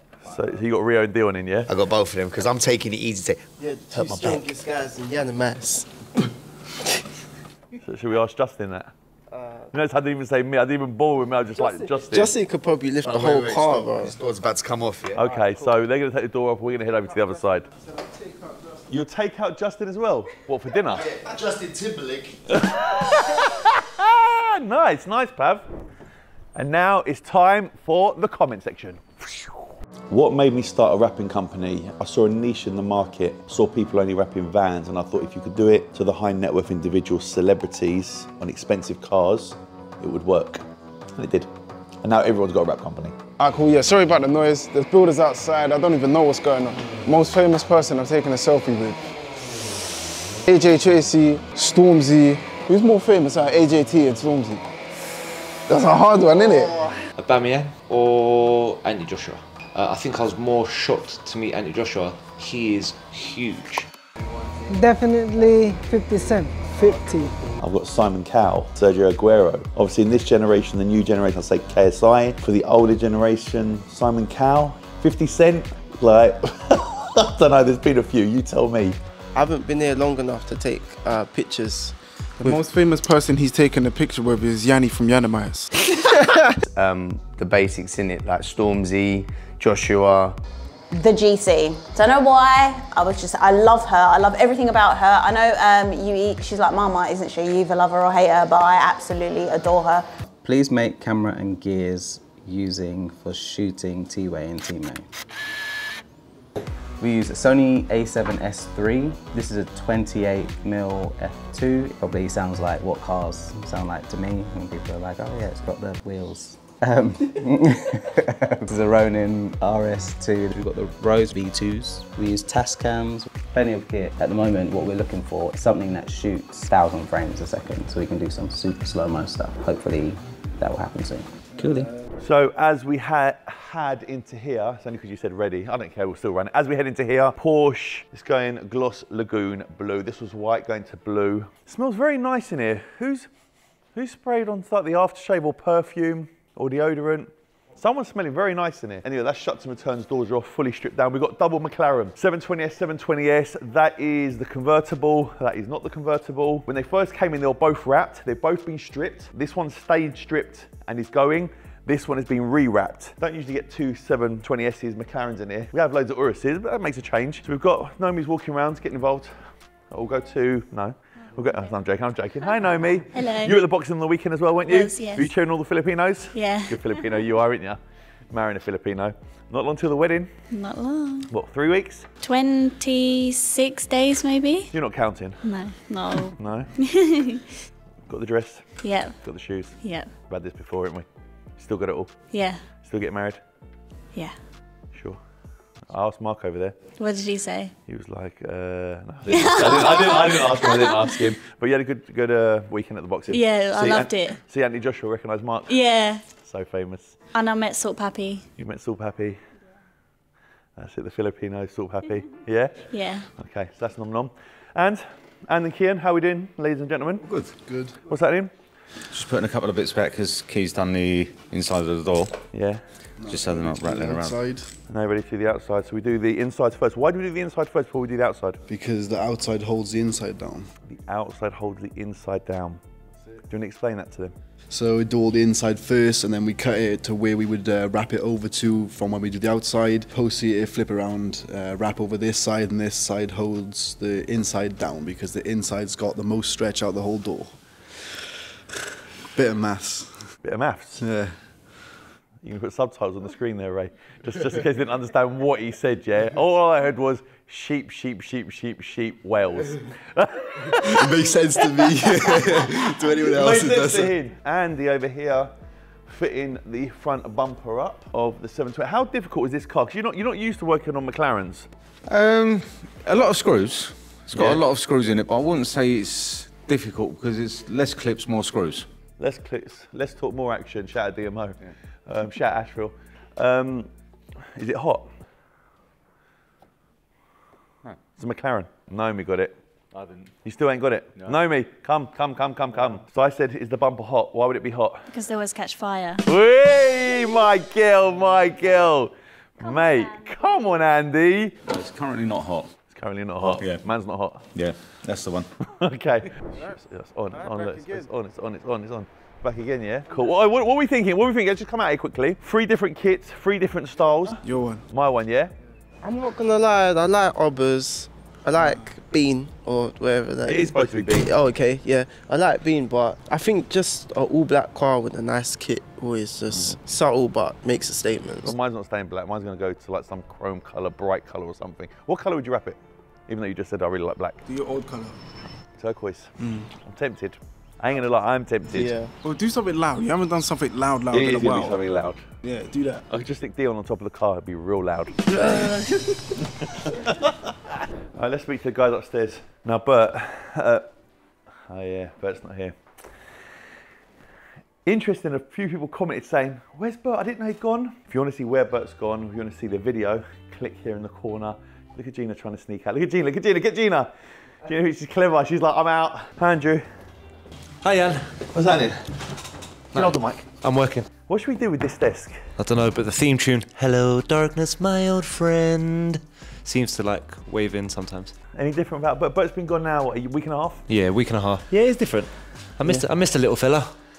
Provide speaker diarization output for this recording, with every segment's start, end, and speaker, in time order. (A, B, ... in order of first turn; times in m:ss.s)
0:00.2-0:01.7 A
0:01.7-0:03.4 B
0:03.6-0:05.9 C
0:07.8-0:08.9 A
0:09.3-0:09.7 C
0:09.7-0:12.3 A
0:11.6-0:14.2 C
0:13.1-0:15.2 B
0:15.1-0:17.7 A
0:18.9-0:21.1 A
0:21.2-0:22.3 B
0:22.6-0:25.7 A
0:26.6-0:40.6 A
0:41.2-0:41.5 A
0:42.0-0:43.2 A
0:43.4-0:49.0 D
0:50.5-0:54.6 D
0:55.7-0:56.8 D
0:57.2-1:03.9 E
1:04.7-1:07.3 F
1:07.6-1:19.0 A
1:19.4-1:22.6 C
1:22.4-1:25.7 D
1:26.7-1:30.4 G
1:30.9-1:40.1 H
1:40.4-1:45.0 I
1:47.0-2:11.9 I
2:12.2-2:23.3 A
2:24.0-2:49.3 A
2:49.9-2:57.8 A
2:53.1-2:53.6 J
2:54.6-2:55.3 J
2:56.3-2:57.0 J
2:58.3-3:00.3 A
3:00.5-3:01.3 J
3:01.3-3:02.1 A
3:02.2-3:04.7 J
3:04.7-3:05.4 A
3:05.4-3:07.4 J
3:06.4-3:06.7 A
3:08.1-3:11.0 A
3:08.8-3:09.2 J
3:09.8-3:10.1 J
3:11.6-3:12.1 A
3:12.3-3:12.6 J
3:12.8-3:13.4 A
3:15.9-3:16.8 A
3:17.0-3:17.7 J
3:17.9-3:25.8 A
3:19.3-3:21.1 J
3:23.3-3:24.4 J
3:25.7-3:26.2 J
3:26.3-3:27.2 A
3:27.3-3:28.4 J
3:28.6-3:29.4 A
3:30.8-3:37.3 A
3:32.9-3:33.3 J
3:37.3-3:37.5 K
3:37.6-3:38.0 L
3:38.1-3:38.5 A
3:39.1-3:42.4 K
3:42.5-3:42.8 A
3:43.2-3:44.7 L
3:43.3-3:44.4 K
3:44.9-3:48.6 A
3:48.7-3:50.7 L
3:50.9-3:52.8 A
3:53.5-3:54.3 A
3:54.7-4:07.6 L
4:09.3-4:10.3 L
4:10.4-4:11.0 A
4:11.0-4:11.4 L
4:12.4-4:21.1 A
4:20.9-4:24.1 L
4:21.7-4:22.6 A
4:23.2-4:25.5 A
4:26.1-4:31.7 A
4:32.1-4:38.9 K
4:34.3-4:34.6 A
4:39.2-4:43.9 A
4:44.6-4:45.1 A
4:48.2-4:49.6 A
4:50.4-4:55.0 A
4:55.1-4:56.2 J
4:56.3-5:01.6 A
5:01.7-5:02.7 K
5:02.9-5:04.4 A
5:03.4-5:03.9 K
5:04.6-5:05.5 K
5:05.6-5:15.5 A
5:14.4-5:14.8 D
5:16.0-5:28.5 C
5:20.5-5:21.3 A
5:28.4-5:34.4 A
5:34.5-5:35.2 D
5:35.8-5:39.0 A
5:38.7-5:39.1 C
5:39.2-5:41.8 D
5:41.1-5:42.2 A
5:42.4-5:43.0 D
5:43.1-5:45.8 A
5:48.2-5:50.8 A
5:51.7-5:52.8 A
5:54.8-6:04.1 A
6:04.7-6:06.8 A
6:07.8-6:08.4 E
6:08.5-6:09.1 A
6:09.9-6:10.5 A
6:09.9-6:11.1 E
6:11.3-6:12.5 A
6:12.6-6:18.3 E
6:18.6-6:20.8 A
6:20.9-6:23.9 E